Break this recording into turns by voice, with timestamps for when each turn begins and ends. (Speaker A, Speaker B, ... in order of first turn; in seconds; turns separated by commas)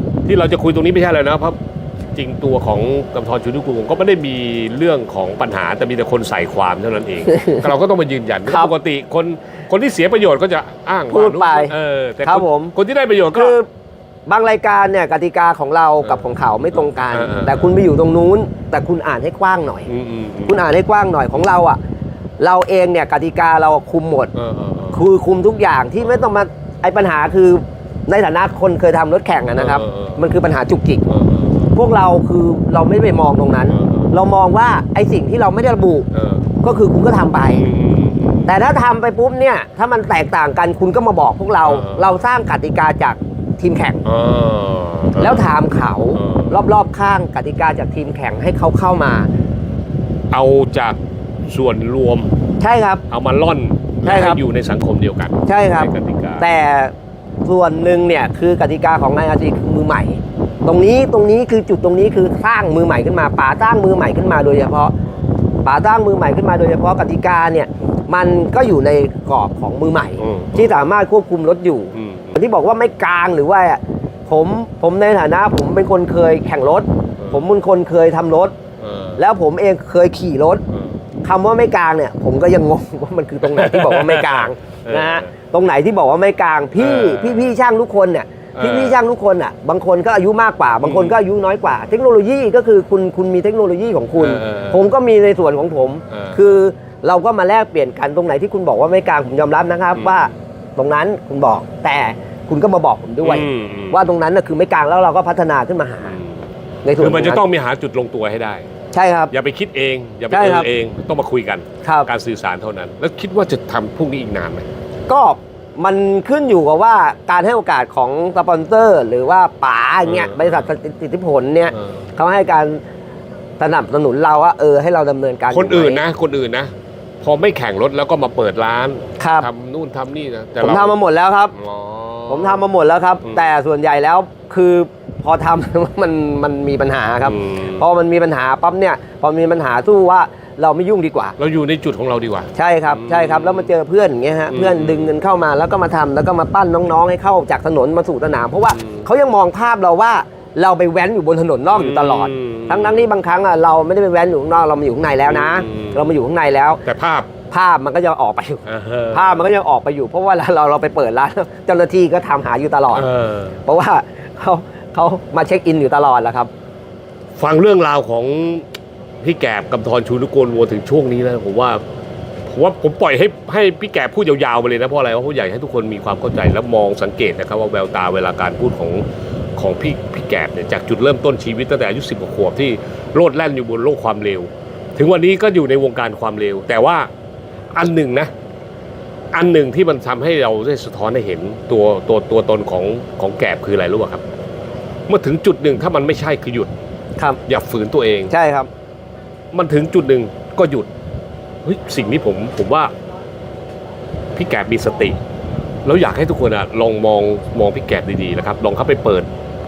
Speaker A: 0.2-1.6, Speaker A: 2.1-13.6, Speaker B: 7.3-7.7, Speaker B: 8.4-8.7, Speaker B: 11.1-12.7, Speaker B: 13.3-13.7, Speaker B: 14.3-19.9, Speaker A: 16.0-17.8, Speaker A: 19.9-20.6, Speaker B: 20.4-21.8, Speaker B: 22.4-24.3, Speaker A: 24.3-25.0, Speaker B: 24.9-31.0, Speaker A: 26.0-26.2, Speaker A: 29.6-30.3, Speaker A: 31.1-31.8, Speaker B: 31.7-36.1, Speaker A: 33.7-34.1, Speaker A: 36.1-36.4, Speaker B: 36.6-37.6, Speaker A: 37.5-38.5, Speaker B: 38.5-44.0, Speaker A: 41.6-42.1, Speaker A: 44.0-45.5, Speaker B: 45.2-49.3, Speaker A: 46.1-46.6, Speaker A: 50.3-52.3, Speaker B: 52.6-53.0, Speaker A: 53.1-56.4, Speaker B: 54.0-54.4, Speaker B: 55.5-56.9, Speaker B: 57.4-64.9, Speaker B: 65.6-78.5, Speaker A: 70.2-70.8, Speaker A: 71.9-72.3, Speaker A: 78.8-79.2, Speaker B: 79.2-80.6, Speaker A: 80.7-81.0, Speaker B: 81.2-106.2, Speaker A: 83.4-85.3, Speaker A: 86.8-87.5, Speaker A: 88.5-89.0, Speaker A: 90.8-91.2, Speaker A: 94.2-94.8, Speaker A: 96.1-96.4, Speaker A: 99.9-100.3, Speaker A: 103.2-104.0, Speaker A: 106.0-106.5, Speaker B: 106.8-107.4, Speaker A: 107.0-108.7, Speaker B: 108.9-109.3, Speaker A: 109.3-114.7, Speaker B: 110.3-110.7, Speaker B: 111.8-112.1, Speaker B: 115.1-122.8, Speaker A: 120.0-120.7, Speaker A: 121.7-122.0, Speaker B: 123.6-126.0, Speaker A: 125.5-130.9, Speaker B: 129.2-129.5, Speaker B: 130.6-131.5, Speaker A: 131.5-132.7, Speaker B: 132.3-141.3, Speaker A: 137.2-137.8, Speaker A: 141.4-143.7, Speaker B: 142.5-156.8, Speaker A: 144.5-145.1, Speaker A: 148.7-149.1, Speaker A: 151.7-153.1, Speaker A: 155.2-156.1, Speaker A: 156.8-157.3, Speaker B: 157.5-163.1, Speaker A: 158.6-159.5, Speaker A: 162.9-163.6, Speaker B: 163.6-166.5, Speaker A: 167.4-168.7, Speaker A: 169.2-171.8, Speaker A: 172.4-179.0, Speaker A: 179.6-187.1, Speaker A: 187.7-188.3, Speaker A: 189.3-194.2, Speaker A: 195.1-196.7, Speaker A: 197.4-198.3, Speaker B: 198.3-198.7, Speaker A: 199.5-200.9, Speaker A: 201.6-202.9, Speaker A: 204.3-205.2, Speaker A: 205.8-209.3